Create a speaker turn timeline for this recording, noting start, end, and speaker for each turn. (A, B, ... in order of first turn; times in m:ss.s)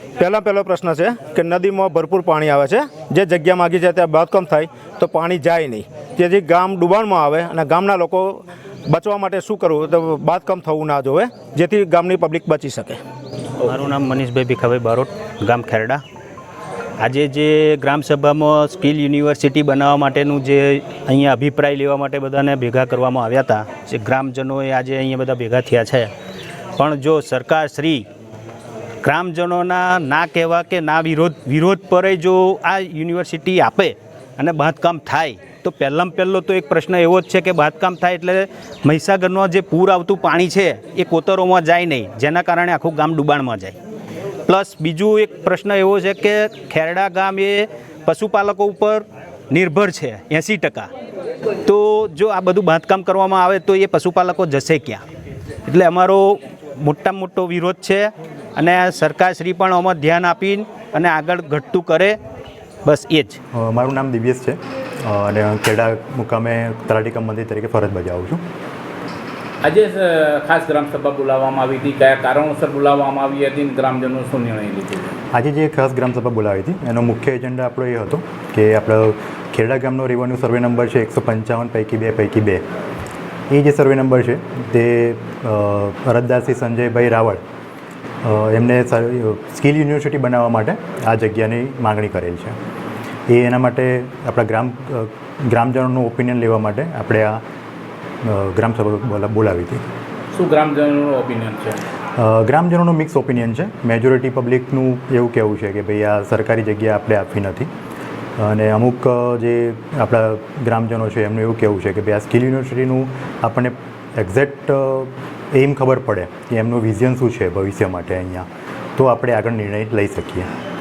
0:00.2-0:13.0 A
0:13.6-0:16.0 B
0:17.0-0:26.1 B
0:26.8-0:28.1 B
0:29.0-0:43.8 B
0:44.5-0:50.9 B
0:51.7-0:55.0 B
0:55.7-1:02.2 B
1:02.8-1:03.4 B
1:03.5-1:08.4 C
1:09.6-1:15.0 D
1:15.3-1:22.6 C
1:23.5-1:27.4 C
1:28.2-1:32.6 C
1:33.3-1:37.4 C
1:38.2-1:39.8 C
1:40.4-1:41.1 D
1:42.2-1:47.7 C
1:48.4-2:00.5 C